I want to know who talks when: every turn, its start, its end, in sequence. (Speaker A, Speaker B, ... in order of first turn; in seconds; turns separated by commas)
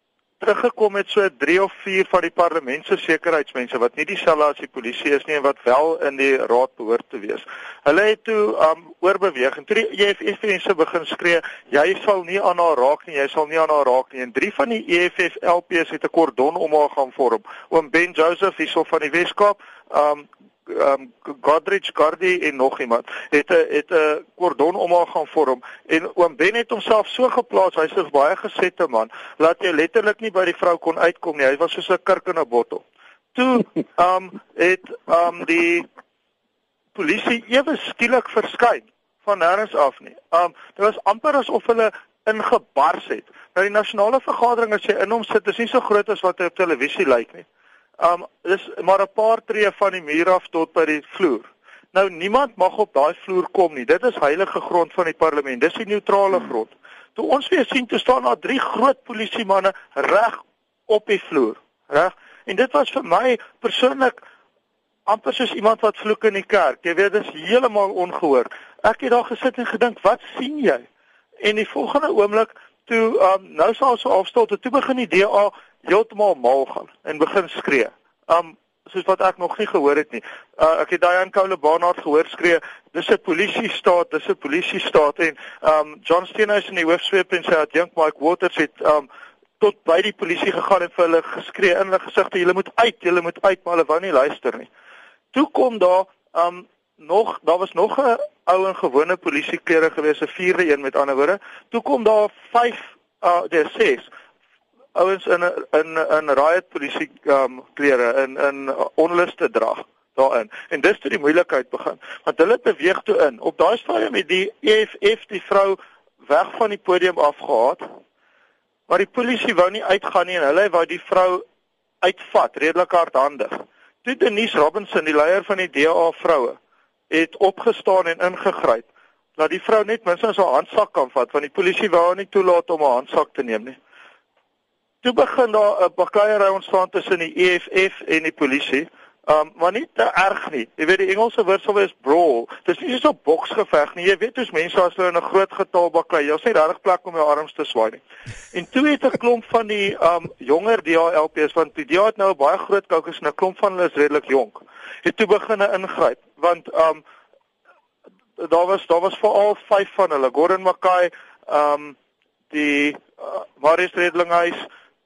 Speaker A: 0.4-32.8, Speaker A: 33.3-35.9, Speaker A: 36.9-47.4, Speaker A: 48.0-64.2, Speaker A: 65.1-70.8, Speaker A: 71.4-89.1, Speaker A: 89.6-94.7, Speaker A: 95.3-104.1, Speaker A: 104.9-117.8, Speaker A: 118.9-121.4, Speaker A: 122.0-126.6, Speaker A: 127.1-133.8, Speaker A: 135.0-148.0, Speaker A: 148.5-157.0, Speaker A: 158.4-161.9, Speaker A: 162.5-164.7